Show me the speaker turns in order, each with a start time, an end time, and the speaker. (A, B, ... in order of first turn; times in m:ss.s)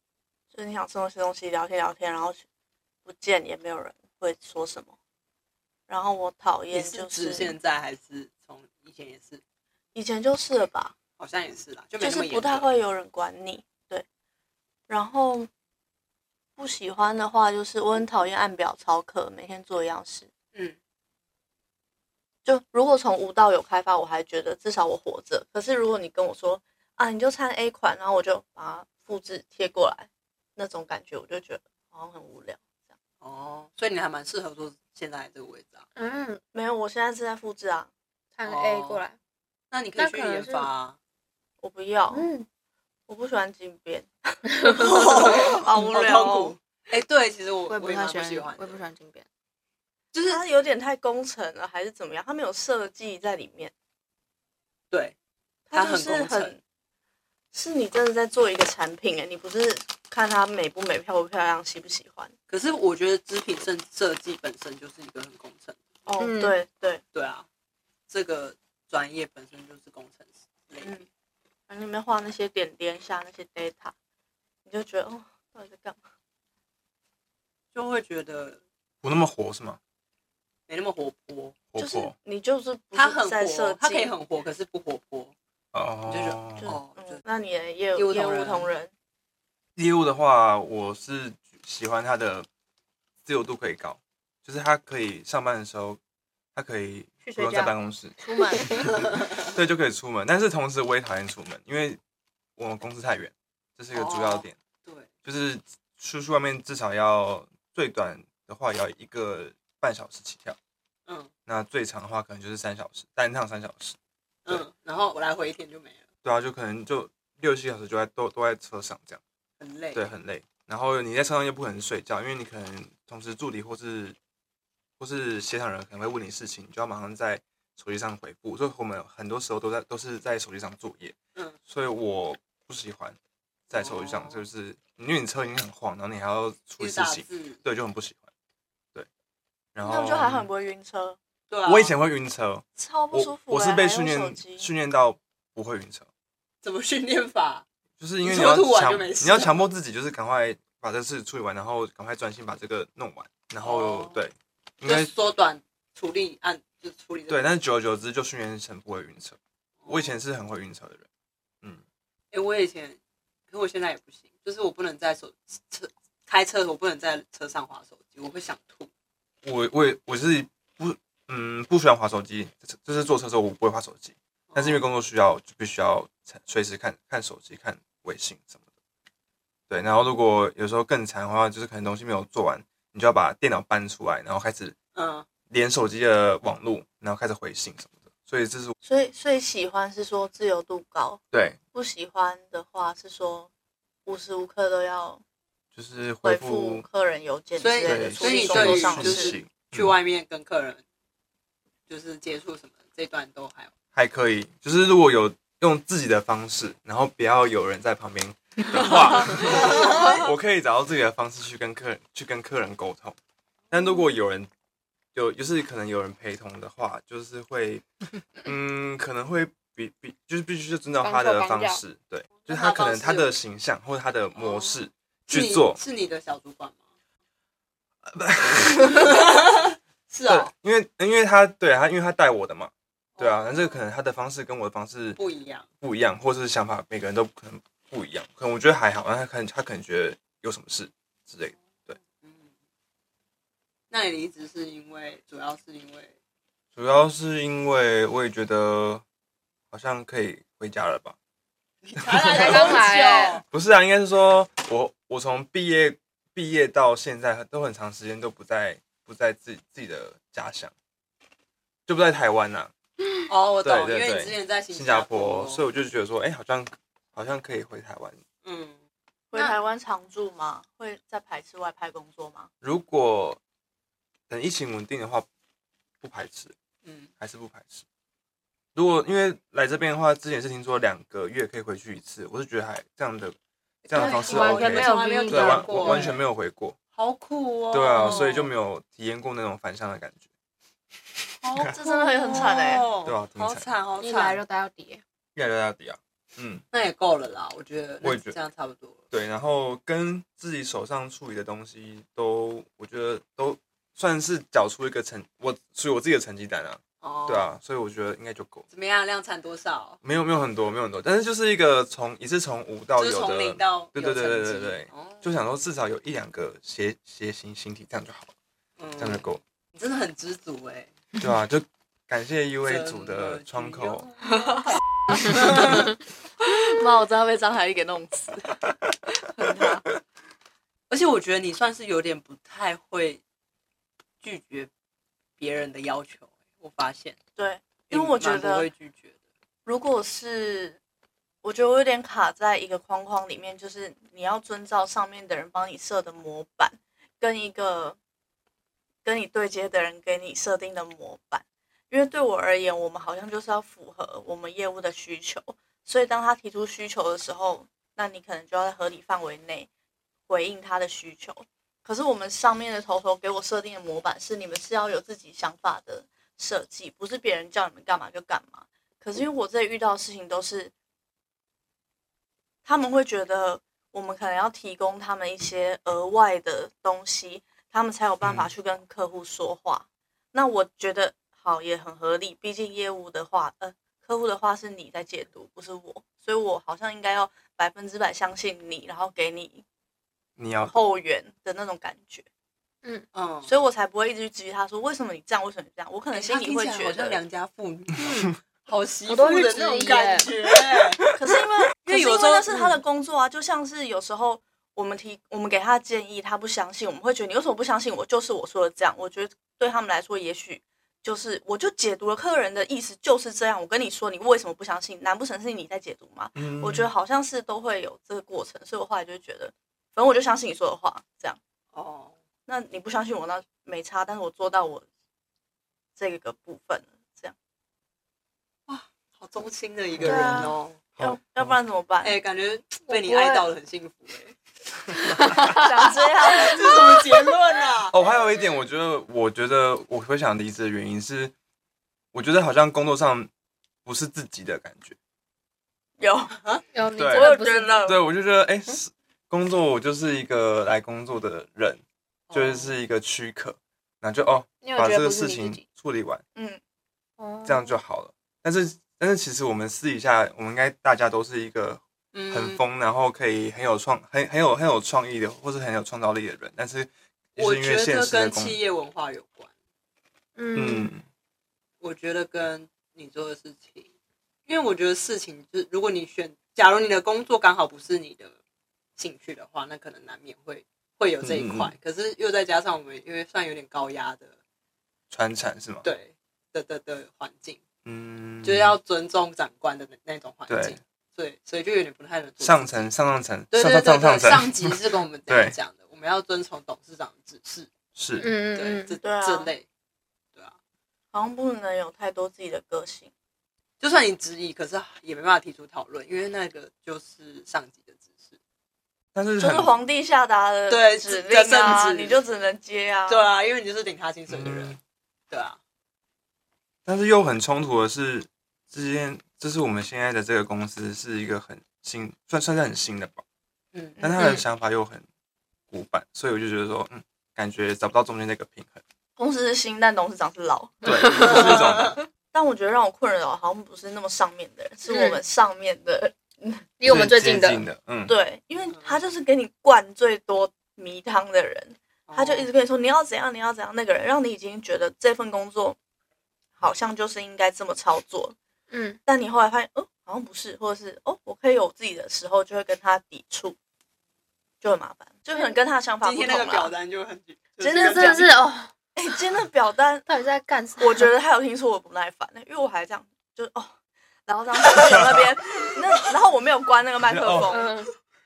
0:00.5-0:02.4 A
0:03.0-0:04.9 A
0:05.9-0:07.5 A
0:06.7-0:09.4 B
0:09.9-0:10.9 A
0:11.2-0:12.7 B
0:12.0-0:14.0 A
0:14.9-0:15.5 A
0:16.6-0:20.3 A
0:22.4-0:32.6 A
0:33.2-0:35.8 B
0:36.0-0:36.4 C
0:36.5-0:37.9 A
0:38.4-0:39.2 C
0:38.4-0:39.0 B
0:39.7-0:41.0 B
0:40.0-0:40.7 C
0:41.6-0:42.3 A
0:42.1-0:42.4 C
0:43.1-0:46.5 A
0:44.5-0:45.0 C
0:44.7-0:48.8 B
0:47.7-0:49.2 C
0:50.1-0:50.4 B
0:50.2-0:53.7 A
0:55.7-0:56.6 A
0:55.7-0:56.6 B
0:57.5-1:02.3 A
1:02.5-1:05.8 B
1:06.0-1:07.0 A
1:06.2-1:06.6 C
1:07.1-1:07.5 B
1:08.1-1:11.0 B
1:11.7-1:13.9 A
1:14.6-1:16.0 A
1:17.7-1:18.6 B
1:19.0-1:19.8 D
1:20.7-1:21.6 B
1:21.7-1:22.1 D
1:21.8-1:24.1 A
1:22.9-1:25.3 B
1:25.7-1:26.7 D
1:26.0-1:27.2 B
1:26.6-1:28.9 A
1:27.9-1:28.7 B
1:29.8-1:32.5 D
1:33.2-1:36.0 D
1:36.5-1:42.0 D
1:37.2-1:37.8 C
1:38.2-1:38.8 A
1:42.6-1:44.6 D
1:43.9-1:45.1 B
1:45.2-1:50.6 D
1:51.5-1:54.6 D
1:54.4-1:56.0 B
1:56.2-1:59.2 D
1:59.6-2:00.0 B
1:59.9-2:04.2 D
2:05.0-2:11.2 D
2:11.7-2:13.2 D
2:13.7-2:18.3 D
2:13.7-2:14.4 B
2:16.8-2:17.6 B
2:19.7-2:20.5 D
2:19.8-2:21.2 A
2:21.5-2:22.0 B
2:21.6-2:26.1 D
2:22.8-2:24.7 A
2:26.6-2:27.6 B
2:28.0-2:35.1 D
2:28.2-2:29.6 B
2:33.6-2:34.2 B
2:34.8-2:37.6 B
2:37.3-2:41.0 D
2:39.8-2:40.1 B
2:42.3-2:48.9 B
2:49.4-2:58.6 D
2:54.5-2:54.8 B
2:59.7-3:04.8 D
3:04.9-3:05.2 B
3:05.5-3:08.7 D
3:08.8-3:11.2 A
3:11.3-3:11.6 D
3:11.7-3:13.5 A
3:14.0-3:15.2 A
3:15.7-3:16.8 D
3:16.2-3:19.4 A
3:17.6-3:20.8 B
3:17.8-3:19.9 D
3:21.9-3:23.7 B
3:23.9-3:33.2 D
3:33.7-3:34.5 D
3:35.1-3:37.8 D
3:38.4-3:45.8 D
3:41.0-3:41.8 C
3:42.4-3:43.3 B
3:44.3-3:46.8 B
3:48.0-3:49.3 D
3:48.7-3:50.5 B
3:50.2-3:55.2 D
3:53.2-3:53.8 B
3:55.2-3:55.7 B
3:55.8-4:02.0 D
4:02.0-4:02.5 B
4:03.9-4:06.1 B
4:06.8-4:09.0 D
4:09.7-4:11.2 D
4:11.8-4:13.4 B
4:12.0-4:12.8 D
4:12.2-4:13.4 C
4:13.5-4:20.7 D
4:21.9-4:22.7 D
4:23.3-4:25.6 B
4:23.6-4:28.2 D
4:28.4-4:28.8 B
4:29.3-4:32.5 A
4:32.6-4:33.4 D
4:34.3-4:35.3 D
4:36.0-4:36.5 D
4:36.8-4:37.1 B
4:37.2-4:37.8 D
4:38.7-4:43.4 D
4:43.9-4:46.8 D
4:43.9-4:46.2 B
4:43.9-4:46.1 C
4:46.9-4:48.5 B
4:47.7-4:50.2 D
4:51.4-4:54.4 B
4:51.7-4:52.8 A
4:53.0-4:53.7 D
4:54.0-4:55.0 C
4:55.3-4:56.6 D
4:56.7-4:59.0 B
4:58.0-4:58.4 D
4:59.1-5:08.6 D
5:07.0-5:07.5 B
5:08.7-5:10.0 B
5:10.0-5:18.3 D
5:13.0-5:15.3 B
5:18.8-5:21.0 B
5:19.0-5:19.4 D
5:21.2-5:24.1 D
5:22.6-5:24.7 B
5:24.3-5:25.9 A
5:25.3-5:25.7 B
5:26.4-5:28.6 A
5:29.1-5:29.8 A
5:30.9-5:33.2 B
5:34.2-5:34.7 B
5:35.4-5:37.2 B
5:37.4-5:38.7 A
5:37.9-5:39.2 B
5:39.6-5:40.8 A
5:41.4-5:48.0 A
5:49.0-5:59.7 A
6:00.3-6:10.7 A
6:12.6-6:29.6 A
6:18.2-6:18.5 D
6:30.4-6:30.8 D
6:30.6-6:32.2 A
6:33.1-6:33.6 B
6:33.4-6:37.2 A
6:36.1-6:41.1 B
6:39.1-6:40.3 C
6:41.1-7:01.4 A
6:41.9-6:42.5 B
6:56.3-6:56.9 D
7:01.7-7:02.1 B
7:02.5-7:04.8 A
7:06.0-7:07.3 A
7:08.7-7:10.8 B
7:10.0-7:10.3 D
7:10.0-7:10.6 C
7:11.0-7:11.6 D
7:11.0-7:12.2 A
7:12.0-7:14.4 B
7:12.9-7:13.4 C
7:15.0-7:15.7 C
7:15.5-7:17.0 A
7:16.2-7:18.0 B
7:17.9-7:21.3 D
7:22.1-7:23.3 D
7:23.8-7:25.0 D
7:26.0-7:26.4 A
7:26.4-7:26.6 B
7:26.7-7:27.8 C
7:27.0-7:36.2 D
7:27.1-7:28.0 A
7:32.3-7:32.8 B
7:34.6-7:35.6 C
7:37.2-7:37.8 C
7:37.4-7:48.6 D
7:42.1-7:42.6 B
7:47.4-7:49.5 B
7:50.4-7:50.9 C
7:50.6-7:51.0 D
7:51.8-7:53.9 B
7:54.4-7:58.3 B
7:59.0-8:04.3 B
8:01.2-8:01.8 D
8:05.1-8:05.9 D
8:05.8-8:07.6 B
8:07.8-8:08.8 D
8:08.4-8:12.9 B
8:10.5-8:10.8 D
8:12.4-8:15.6 D
8:13.5-8:17.7 B
8:17.9-8:18.3 D
8:18.2-8:19.0 C
8:18.5-8:19.6 B
8:19.0-8:19.5 A
8:21.1-8:23.1 A
8:23.8-8:28.4 B
8:29.1-8:29.7 D
8:29.4-8:33.3 A
8:30.7-8:32.2 B
8:33.1-8:34.8 B
8:34.3-8:34.8 D
8:35.3-8:35.6 B
8:36.8-8:43.2 D
8:43.7-8:44.0 B
8:44.0-8:44.3 A
8:44.0-8:45.0 D
8:45.7-8:48.8 D
8:49.2-8:56.7 A
8:50.8-8:52.0 D
8:54.9-8:55.2 C
8:56.8-8:57.6 C
8:56.8-8:58.2 D
8:58.1-9:05.8 A
8:58.7-8:59.0 B
9:02.1-9:02.5 B
9:06.6-9:08.3 A
9:08.7-9:09.0 C
9:09.0-9:13.6 A
9:14.6-9:16.7 A
9:16.0-9:18.3 B
9:17.6-9:18.3 A
9:17.7-9:18.7 C
9:19.0-9:20.0 A
9:20.0-9:21.1 C
9:20.8-9:23.7 A
9:24.2-9:27.7 A
9:24.8-9:25.2 D
9:27.0-9:27.6 D
9:27.5-9:27.9 C